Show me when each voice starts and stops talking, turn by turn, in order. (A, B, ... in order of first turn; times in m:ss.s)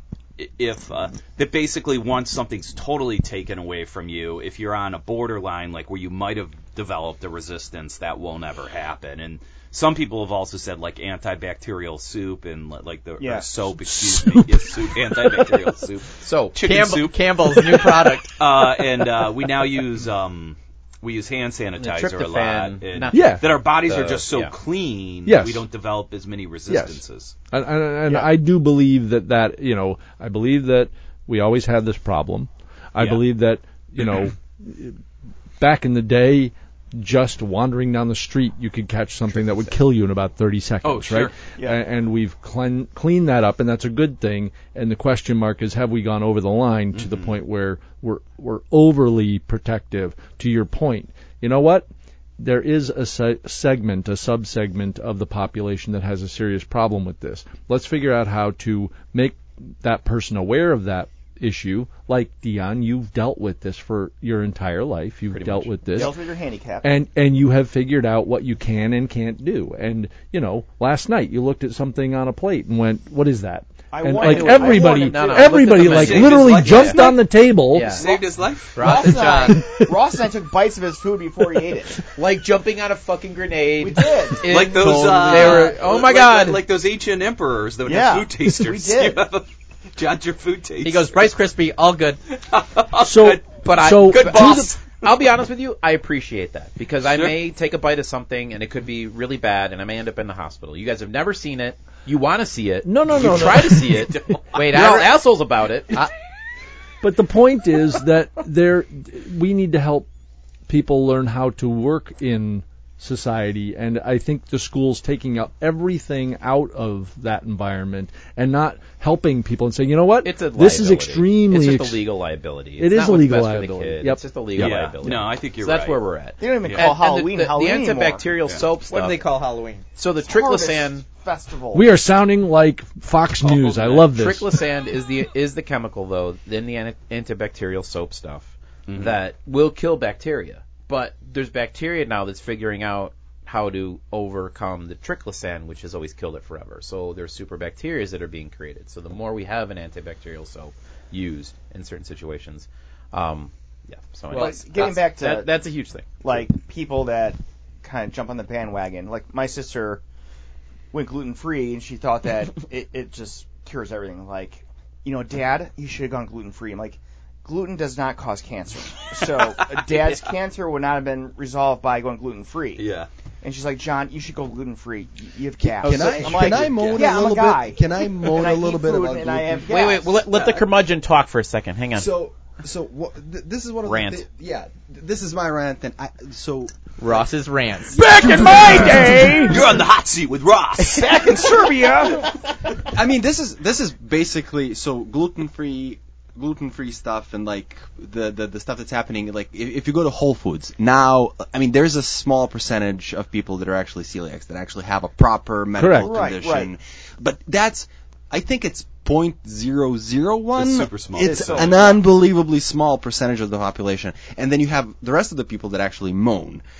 0:00.4-0:27.3 A
0:13.2-0:13.5 B
0:13.9-0:14.8 C
0:16.1-0:16.8 D
0:16.6-0:18.4 E
0:21.8-0:24.5 D
0:23.1-0:23.4 C
0:25.2-0:25.6 C
0:26.7-0:35.0 C
0:33.0-0:33.2 A
0:35.6-0:51.9 C
0:40.8-0:41.3 A
0:46.9-0:47.4 A
0:52.4-1:06.1 C
1:05.3-1:06.1 D
1:05.9-1:06.9 B
1:06.8-1:18.0 C
1:13.9-1:15.6 B
1:14.2-1:17.2 D
1:15.7-1:17.2 A
1:17.7-1:18.1 D
1:17.7-1:19.1 A
1:18.8-1:19.6 E
1:18.8-1:22.1 B
1:22.2-1:26.6 D
1:23.8-1:24.5 B
1:24.4-1:31.2 A
1:27.9-1:29.2 B
1:30.8-1:32.2 E
1:32.5-1:35.0 A
1:33.0-1:34.7 C
1:33.5-1:46.1 D
1:37.0-1:37.4 A
1:42.8-1:44.2 C
1:47.0-1:50.1 C
1:50.7-2:02.0 C
2:00.2-2:09.2 D
2:02.8-2:05.1 C
2:04.6-2:06.0 A
2:06.4-2:08.3 B
2:06.6-2:06.9 A
2:08.9-2:09.8 E
2:10.0-2:11.0 D
2:10.2-2:11.9 B
2:11.7-2:14.6 C
2:13.5-2:13.9 A
2:13.5-2:36.4 D
2:18.9-2:19.2 A
2:34.3-2:35.5 B
2:36.2-2:40.0 B
2:40.9-2:52.9 B
2:49.8-2:50.1 A
2:52.8-2:53.1 A
2:53.4-3:00.2 B
2:55.8-2:59.7 F
2:55.8-2:56.2 E
2:55.8-2:56.3 D
2:56.6-2:57.0 A
2:59.6-3:02.1 D
3:00.3-3:00.6 A
3:01.9-3:07.2 F
3:03.8-3:04.3 D
3:07.0-3:08.0 E
3:07.9-3:09.5 F
3:08.2-3:09.6 B
3:08.3-3:09.1 C
3:08.6-3:11.5 A
3:10.8-3:12.3 B
3:12.9-3:36.6 F
3:25.8-3:26.1 C
3:26.0-3:26.7 B
3:30.6-3:31.7 A
3:31.2-3:32.1 B